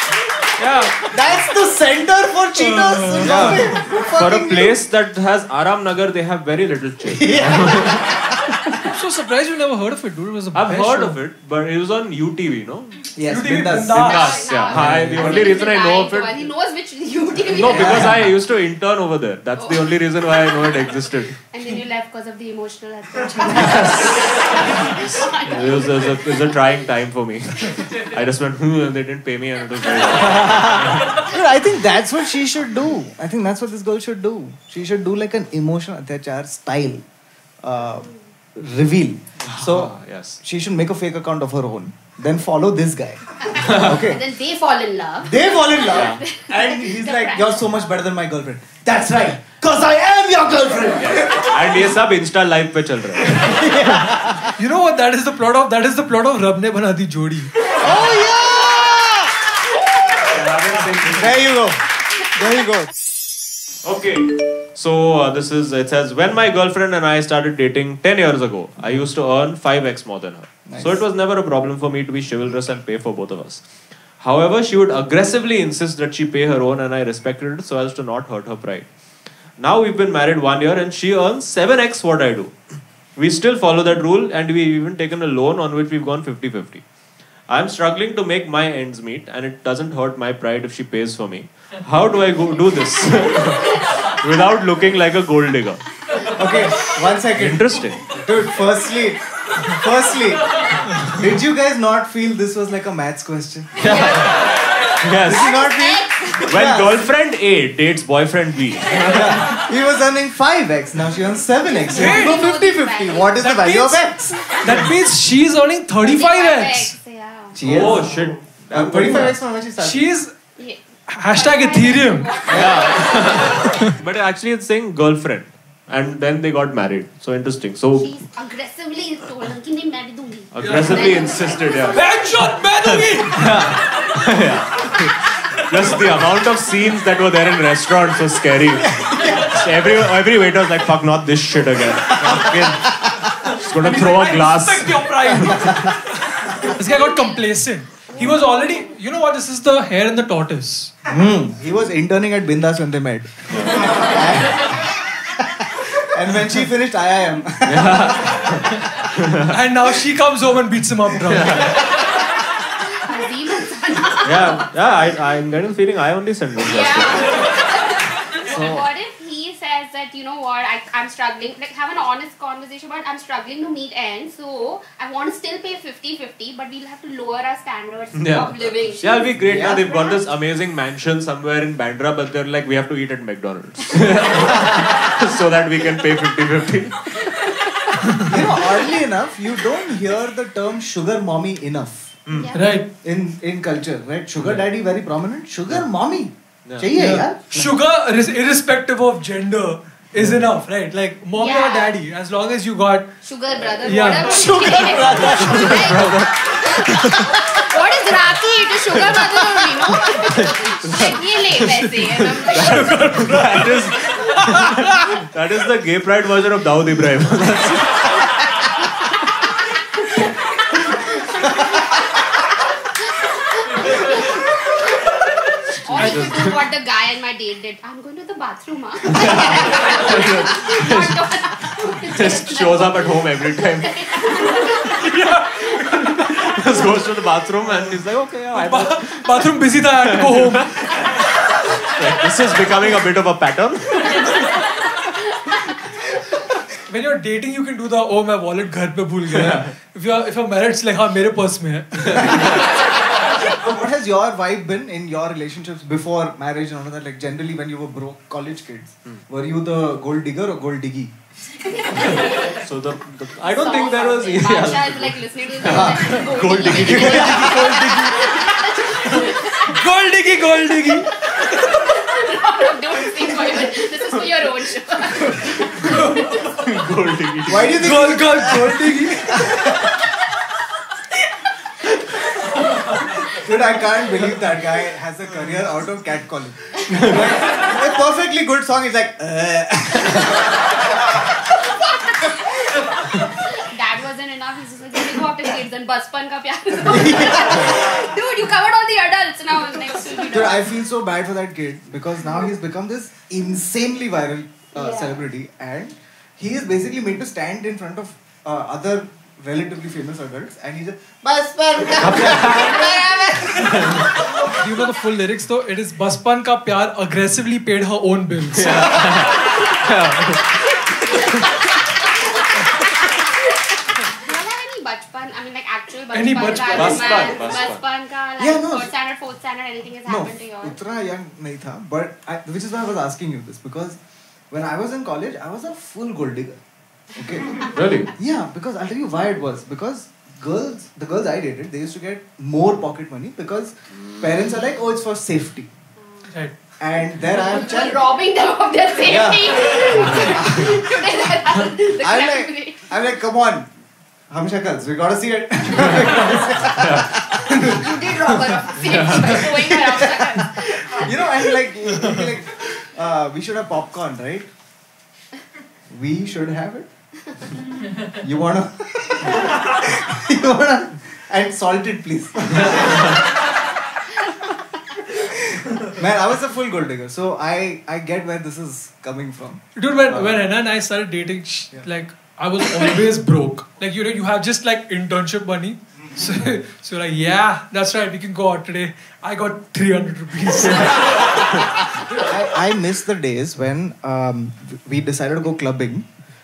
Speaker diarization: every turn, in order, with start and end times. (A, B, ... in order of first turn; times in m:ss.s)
0:00.6-0:01.0 A
0:01.0-0:04.8 B
0:02.6-0:03.8 A
0:03.2-0:08.1 C
0:07.1-0:08.6 B
0:08.8-0:11.2 A
0:10.5-0:13.0 C
0:13.2-0:15.6 B
0:13.3-0:14.4 A
0:13.9-0:16.5 C
0:14.0-0:18.2 D
0:17.5-0:21.4 C
0:17.6-0:18.3 B
0:19.6-0:19.9 D
0:21.4-0:26.5 D
0:23.5-0:31.2 C
0:30.2-0:37.0 B
0:37.6-0:44.2 B
0:39.4-0:40.4 C
0:43.6-0:44.0 C
0:43.6-0:47.7 D
0:45.2-0:51.7 B
0:45.9-0:46.2 C
0:51.0-0:53.7 C
0:53.2-0:54.5 B
0:54.6-0:57.5 A
0:57.8-0:59.6 B
1:00.2-1:01.4 C
1:01.1-1:02.9 B
1:03.8-1:13.6 C
1:10.6-1:11.0 B
1:14.2-1:18.9 C
1:19.6-1:22.5 C
1:23.2-1:26.8 C
1:27.5-1:35.8 C
1:36.2-1:44.5 B
1:37.3-1:38.2 C
1:43.8-1:45.6 C
1:43.9-1:44.6 D
1:45.2-1:47.0 B
1:45.3-1:46.5 D
1:46.4-1:49.5 C
1:49.1-1:54.9 B
1:51.8-1:53.3 D
1:51.9-1:52.5 A
1:53.4-1:57.0 A
1:56.0-1:57.6 D
1:57.5-2:00.0 B
1:57.6-1:59.4 C
1:59.8-2:00.3 A
2:01.1-2:02.3 A
2:01.3-2:03.8 D
2:02.5-2:03.5 B
2:02.5-2:08.1 C
2:03.6-2:03.9 A
2:08.0-2:12.4 D
2:10.5-2:12.0 C
2:10.6-2:11.1 A
2:11.9-2:13.7 A
2:13.3-2:25.9 C
2:18.8-2:19.6 B
2:22.2-2:22.5 B
2:23.5-2:30.9 A
2:25.4-2:25.9 B
2:26.8-2:27.4 D
2:28.1-2:28.8 D
2:31.0-2:38.5 B
2:33.5-2:33.8 C
2:37.6-2:39.4 C
2:39.4-2:41.7 A
2:41.3-2:41.8 C
2:42.8-2:44.6 D
2:44.2-2:47.4 C
2:46.6-2:59.3 D
2:48.4-2:48.8 B
2:58.1-3:07.3 C
2:59.4-2:59.8 B
3:04.5-3:04.9 B
3:08.2-3:12.2 B
3:12.3-3:12.8 D
3:12.5-3:12.9 A
3:13.0-3:17.7 B
3:14.4-3:14.6 C
3:16.6-3:16.9 C
3:16.9-3:23.1 A
3:21.4-3:21.9 D
3:23.2-3:33.0 D
3:23.8-3:24.3 A
3:24.2-3:26.1 B
3:25.0-3:27.2 C
3:26.9-3:27.4 B
3:28.9-3:38.2 C
3:32.5-3:35.2 A
3:40.7-3:41.9 D
3:43.5-3:55.1 D
3:45.8-3:46.6 C
3:46.0-3:46.3 A
3:49.0-3:51.4 C
3:52.0-3:54.5 C
3:54.8-3:56.5 A
3:56.3-4:00.7 C
3:58.5-4:01.0 A
4:01.8-4:04.4 C
4:06.9-4:12.6 A
4:09.3-4:09.7 C
4:12.0-4:12.6 C
4:13.5-4:21.1 B
4:21.6-4:22.6 D
4:22.0-4:28.4 C
4:23.4-4:29.8 D
4:25.6-4:27.7 B
4:29.1-4:31.5 A
4:31.6-4:36.6 D
4:35.7-4:36.4 A
4:36.6-4:37.8 C
4:37.4-4:39.9 B
4:37.7-4:39.6 A
4:43.3-4:51.2 B
4:46.9-4:47.2 C
4:51.5-5:00.7 D
4:56.8-4:58.0 B
5:00.3-5:14.4 B
5:04.8-5:05.2 D
5:12.0-5:12.7 C
5:12.5-5:13.3 D
5:13.6-5:14.1 C
5:14.4-5:19.2 A
5:18.5-5:20.6 C
5:19.4-5:19.8 D
5:20.4-5:30.8 D
5:26.1-5:27.3 A
5:26.7-5:27.8 C
5:28.4-5:28.9 B
5:30.0-5:34.0 B
5:34.5-5:36.6 B
5:37.1-5:45.7 B
5:37.7-5:38.1 C
5:46.8-5:48.0 B
5:47.4-5:52.9 D
5:49.0-5:51.4 B
5:52.0-5:53.7 B
5:54.3-5:58.1 B
5:55.8-5:56.1 C
5:56.7-5:57.2 C
5:57.6-6:01.2 D
5:58.8-5:59.6 C
5:59.5-6:04.5 B
6:05.9-6:06.9 B
6:08.1-6:13.2 B
6:15.1-6:20.4 B
6:19.8-6:31.2 A
6:32.0-6:36.1 B